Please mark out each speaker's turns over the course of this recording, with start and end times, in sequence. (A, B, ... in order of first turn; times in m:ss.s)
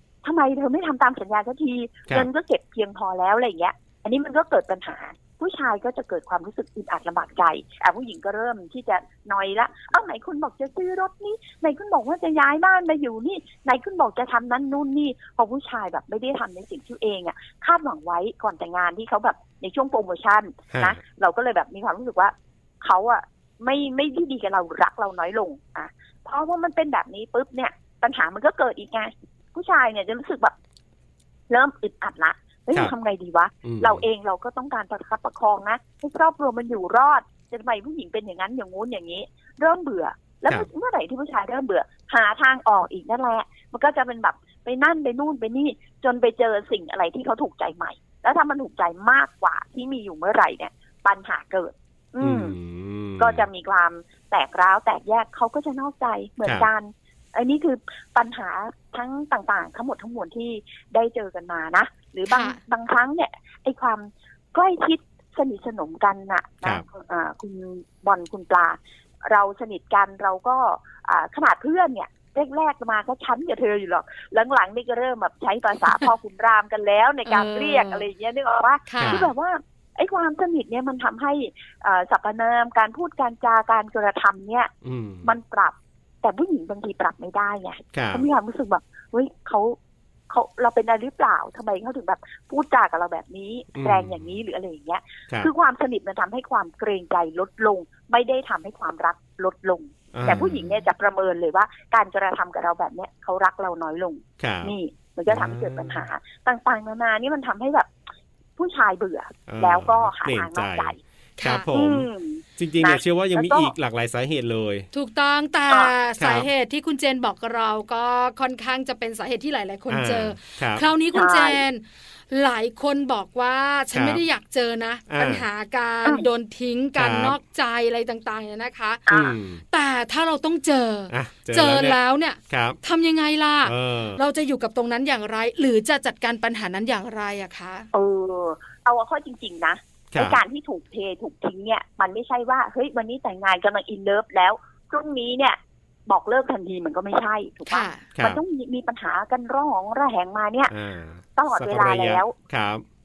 0:00.2-0:30.5 A
0:20.7-0:21.0 B
0:31.5-0:52.6 A
0:33.6-0:34.0 B
0:52.2-0:53.5 B
0:53.2-1:24.7 A
1:02.3-1:02.6 C
1:17.2-1:18.0 C
1:18.9-1:19.2 C
1:19.0-1:19.3 B
1:24.8-1:25.3 B
1:25.2-1:29.8 A
1:27.9-1:28.2 B
1:30.3-1:47.9 A
1:33.7-1:34.3 B
1:40.1-1:40.8 B
1:44.4-1:44.7 B
1:45.3-1:46.0 B
1:48.6-1:51.0 A
1:49.5-1:54.9 B
1:51.4-1:51.7 C
1:51.7-1:53.7 A
1:54.9-2:09.0 C
1:56.2-1:56.5 B
1:59.9-2:00.8 B
2:01.1-2:01.6 A
2:03.9-2:04.2 B
2:05.1-2:05.4 B
2:07.0-2:07.4 B
2:09.1-2:09.4 A
2:09.1-2:09.6 B
2:09.7-2:17.9 C
2:11.1-2:12.8 B
2:13.6-2:14.2 B
2:17.9-2:30.7 A
2:20.1-2:20.4 B
2:27.7-2:28.1 C
2:28.1-2:28.4 B
2:30.7-2:32.8 B
2:31.4-2:32.3 A